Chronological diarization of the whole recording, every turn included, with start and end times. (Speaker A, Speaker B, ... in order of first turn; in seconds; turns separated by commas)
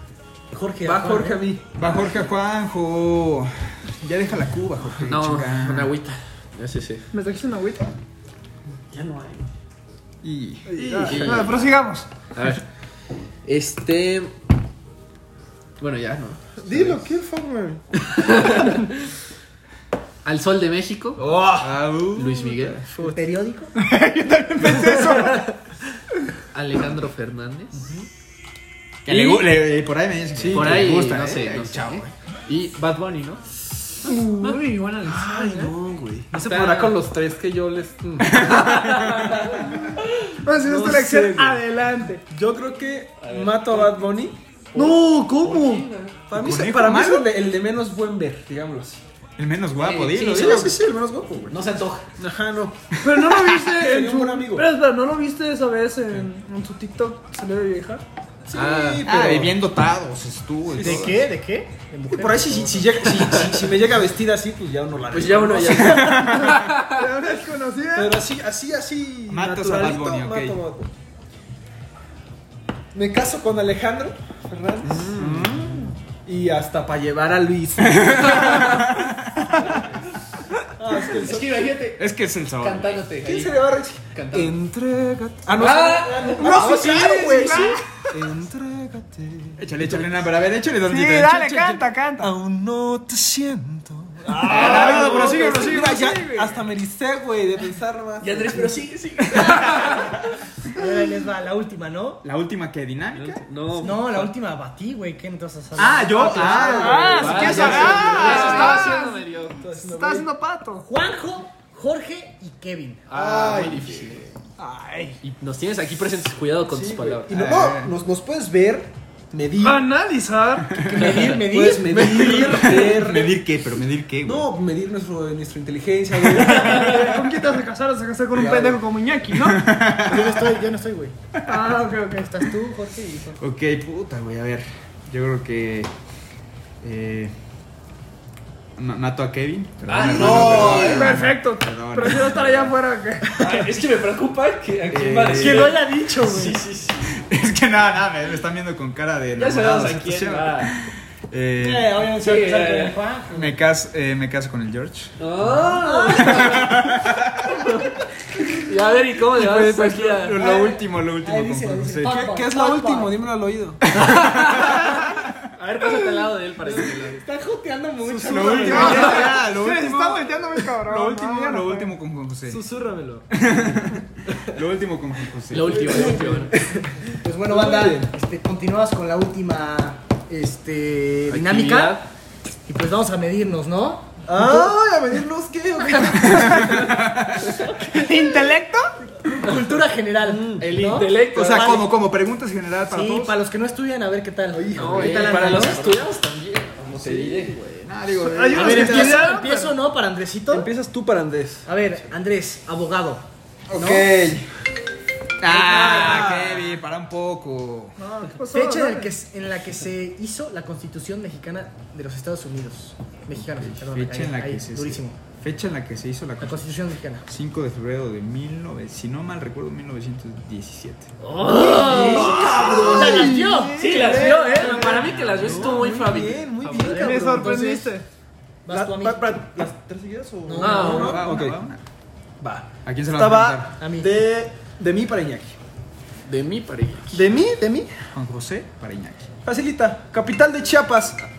Speaker A: 0.5-1.5, Speaker B: 0.8-1.7, Speaker C: 1.7-5.9, Speaker D: 5.0-7.1, Speaker E: 7.1-7.9, Speaker D: 8.9-9.4, Speaker C: 10.2-11.1, Speaker E: 10.7-12.1, Speaker B: 10.8-11.4, Speaker D: 11.0-11.6, Speaker D: 12.3-12.6, Speaker D: 13.4-14.3, Speaker D: 15.8-17.1, Speaker B: 16.6-17.9, Speaker D: 18.1-19.0, Speaker D: 20.2-21.2, Speaker B: 21.2-21.8, Speaker C: 21.6-22.6, Speaker D: 22.1-22.9, Speaker B: 22.6-23.2, Speaker A: 23.1-23.8, Speaker E: 23.8-25.5, Speaker D: 26.5-27.9, Speaker B: 27.7-28.1, Speaker C: 29.1-32.1, Speaker D: 29.1-29.5, Speaker B: 30.4-31.0, Speaker D: 30.5-33.4, Speaker E: 34.0-35.4, Speaker D: 34.1-35.7, Speaker B: 35.0-38.5, Speaker D: 36.3-37.2, Speaker C: 38.2-39.5, Speaker D: 38.2-39.7, Speaker E: 40.2-42.2, Speaker B: 40.6-41.6, Speaker B: 42.3-44.4, Speaker D: 43.2-44.1, Speaker D: 44.7-46.2, Speaker E: 44.7-45.9, Speaker B: 46.3-49.0, Speaker C: 46.3-47.3, Speaker C: 49.4-50.8, Speaker D: 49.8-50.8, Speaker B: 50.2-51.6, Speaker D: 51.5-52.1, Speaker B: 52.2-53.0, Speaker C: 53.0-53.7, Speaker E: 53.0-58.0, Speaker B: 53.7-54.7, Speaker B: 58.5-59.6, Speaker D: 58.5-59.1, Speaker C: 59.0-61.2, Speaker A: 60.8-63.0, Speaker B: 60.8-61.1, Speaker B: 62.1-66.0, Speaker D: 63.1-63.7, Speaker D: 65.1-67.0, Speaker C: 65.7-66.7, Speaker E: 66.1-68.2, Speaker B: 68.0-70.9, Speaker C: 69.3-70.6, Speaker B: 72.9-75.3, Speaker D: 74.8-75.8, Speaker C: 75.1-76.0, Speaker B: 76.2-78.8, Speaker C: 77.8-79.8, Speaker B: 80.8-81.7, Speaker D: 81.2-82.1, Speaker C: 82.0-83.0, Speaker D: 82.6-84.6, Speaker B: 83.2-90.2, Speaker D: 85.5-87.8, Speaker E: 86.4-88.1, Speaker C: 89.6-91.6, Speaker E: 90.9-92.3, Speaker B: 91.7-98.8, Speaker E: 94.3-96.6, Speaker C: 94.5-96.0, Speaker D: 98.2-100.3, Speaker C: 99.3-100.1, Speaker A: 100.8-102.2, Speaker C: 102.2-103.5, Speaker D: 103.2-104.3, Speaker A: 103.8-107.1, Speaker C: 105.8-108.5, Speaker B: 106.2-109.0, Speaker D: 106.4-109.6, Speaker E: 106.8-110.9, Speaker B: 109.6-110.3, Speaker A: 110.8-113.1, Speaker D: 113.1-114.3, Speaker B: 113.1-114.2, Speaker E: 114.6-115.2, Speaker D: 115.2-117.4, Speaker B: 116.7-119.9, Speaker C: 117.3-118.0, Speaker E: 119.6-120.9, Speaker A: 120.8-122.7, Speaker C: 120.8-121.2, Speaker B: 121.3-123.4, Speaker C: 122.0-124.5, Speaker B: 124.2-127.3, Speaker E: 126.3-129.7, Speaker B: 128.3-128.8, Speaker C: 129.4-130.6, Speaker A: 130.0-131.2, Speaker C: 131.3-131.8, Speaker E: 131.5-132.5, Speaker A: 132.2-133.4, Speaker C: 133.4-135.9, Speaker C: 136.8-137.3, Speaker C: 138.8-142.8, Speaker D: 139.9-141.2, Speaker B: 140.1-141.0, Speaker A: 140.2-140.8, Speaker E: 140.6-143.6, Speaker D: 143.4-147.2, Speaker C: 144.9-145.8, Speaker A: 145.4-146.6, Speaker C: 147.1-152.0, Speaker D: 149.4-150.7, Speaker A: 151.6-153.5, Speaker D: 152.1-153.0, Speaker C: 153.3-155.7, Speaker D: 155.2-156.7, Speaker A: 155.8-156.8, Speaker C: 156.2-157.7, Speaker D: 158.5-160.4, Speaker B: 159.3-160.4, Speaker C: 160.2-162.2, Speaker A: 160.4-163.2, Speaker B: 162.0-163.8, Speaker C: 163.9-165.3, Speaker D: 164.2-164.9, Speaker D: 165.6-167.3, Speaker A: 166.7-169.2, Speaker B: 168.1-169.3, Speaker C: 168.3-172.6, Speaker E: 168.7-172.0, Speaker B: 172.5-173.7, Speaker C: 173.3-176.1, Speaker B: 174.3-174.6, Speaker D: 175.5-176.6, Speaker B: 175.7-178.1, Speaker A: 177.1-182.0, Speaker D: 181.3-182.1, Speaker A: 182.7-184.8, Speaker B: 184.3-187.0, Speaker A: 185.9-186.3, Speaker C: 186.2-187.6, Speaker E: 187.8-188.9, Speaker A: 189.2-191.9, Speaker B: 190.2-190.7, Speaker D: 190.6-191.8, Speaker C: 191.0-193.3, Speaker A: 192.9-195.8, Speaker B: 194.5-196.1, Speaker D: 194.7-197.6, Speaker B: 196.8-197.6, Speaker C: 197.6-199.3, Speaker E: 198.2-199.8, Speaker A: 198.5-200.7, Speaker B: 200.5-201.7, Speaker A: 201.7-203.2, Speaker B: 203.7-204.5, Speaker A: 203.8-204.1, Speaker C: 205.4-208.0, Speaker A: 205.5-206.3, Speaker B: 205.7-206.7, Speaker E: 208.0-209.1, Speaker A: 208.5-215.2, Speaker C: 213.4-216.7, Speaker A: 216.4-217.3, Speaker C: 217.3-221.1, Speaker D: 221.2-223.2, Speaker A: 221.3-224.5, Speaker B: 221.6-227.7, Speaker C: 222.3-226.0, Speaker D: 223.8-227.1, Speaker A: 226.8-227.9, Speaker E: 226.9-228.1, Speaker A: 228.7-229.6, Speaker B: 228.7-231.6, Speaker A: 230.5-231.2, Speaker D: 230.6-231.3, Speaker C: 230.8-231.8, Speaker B: 232.4-235.6, Speaker C: 232.8-233.7, Speaker A: 233.8-234.2, Speaker D: 236.3-237.2, Speaker B: 237.1-237.9, Speaker C: 238.1-239.3, Speaker B: 239.4-241.2